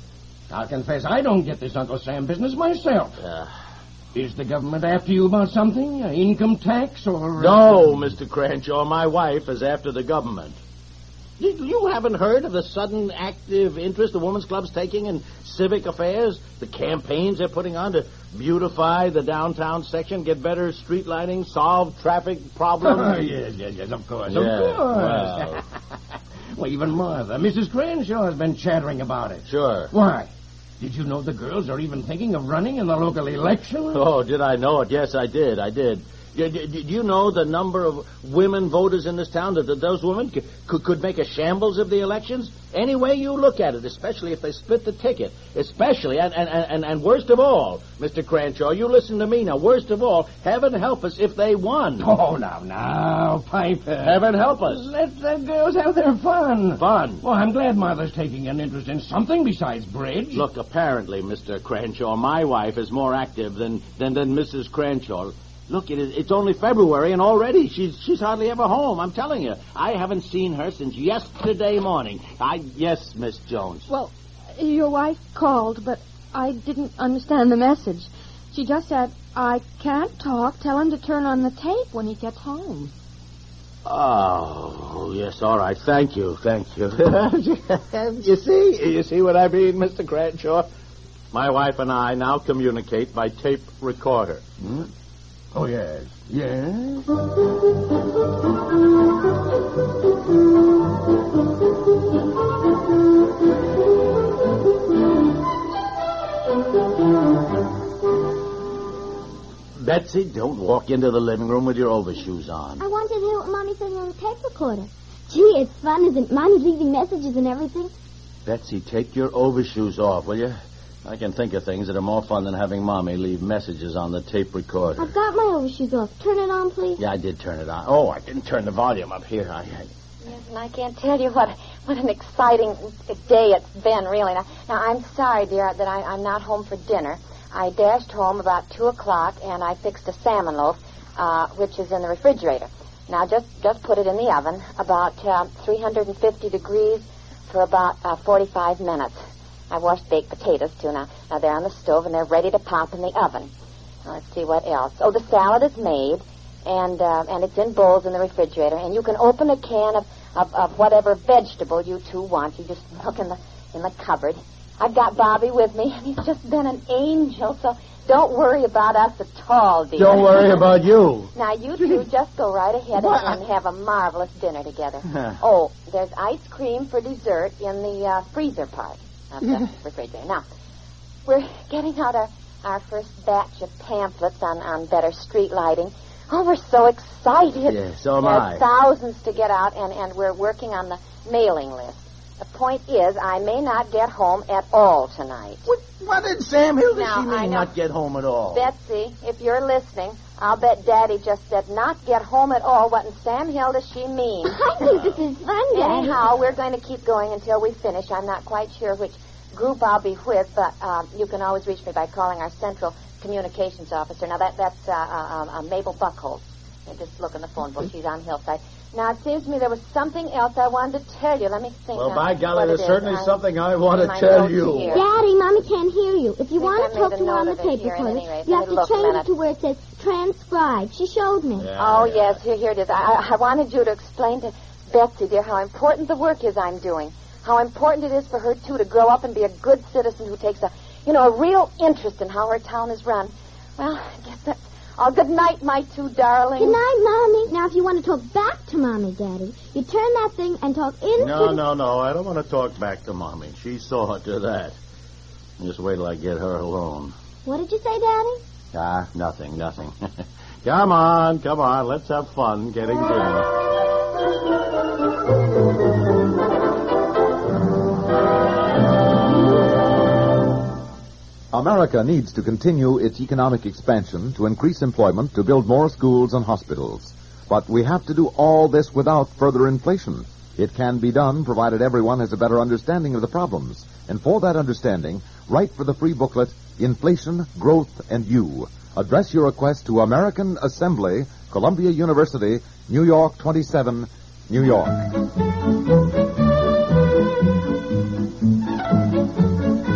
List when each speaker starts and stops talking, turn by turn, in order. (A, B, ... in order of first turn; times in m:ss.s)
0:00.5-0:03.2 A
0:03.2-0:03.5 B
0:04.2-0:08.0 A
0:07.4-0:10.6 B
0:11.4-0:23.3 B
0:22.8-0:25.6 A
0:24.2-0:25.6 B
0:26.6-0:30.3 A
0:29.4-0:29.9 B
0:30.8-0:34.0 A
0:33.9-0:52.1 B
0:52.0-1:00.5 A
0:54.0-0:54.9 B
0:56.8-0:57.2 B
1:00.3-1:13.9 B
1:13.9-1:22.9 C
1:23.8-1:30.7 B
1:31.3-1:34.4 B
1:35.5-1:37.1 A
1:49.8-1:52.9 B
1:52.8-1:57.9 D
1:58.5-2:05.2 B
2:05.0-2:07.0 D
2:07.0-2:09.9 B
2:10.2-2:29.2 E
2:29.7-2:33.5 E
2:34.0-2:50.8 E
2:50.0-2:52.0 B
2:51.3-3:00.4 E
2:53.0-2:53.4 B
2:55.1-2:55.4 B
3:01.3-3:15.6 E
3:07.7-3:08.7 B
3:15.7-3:18.7 B
3:16.9-3:17.7 E
3:18.5-3:24.6 E
3:24.5-3:26.2 D
3:25.7-3:45.0 E
3:41.9-3:45.0 B
3:44.9-3:51.7 D
3:46.6-3:49.3 E
3:51.6-3:52.4 B
3:51.8-4:06.8 E
4:06.6-4:11.6 D
4:11.2-4:14.8 B
4:15.6-4:17.2 B
4:17.4-4:18.4 D
4:18.7-4:20.0 B
4:20.6-4:23.5 B
4:31.5-4:55.1 F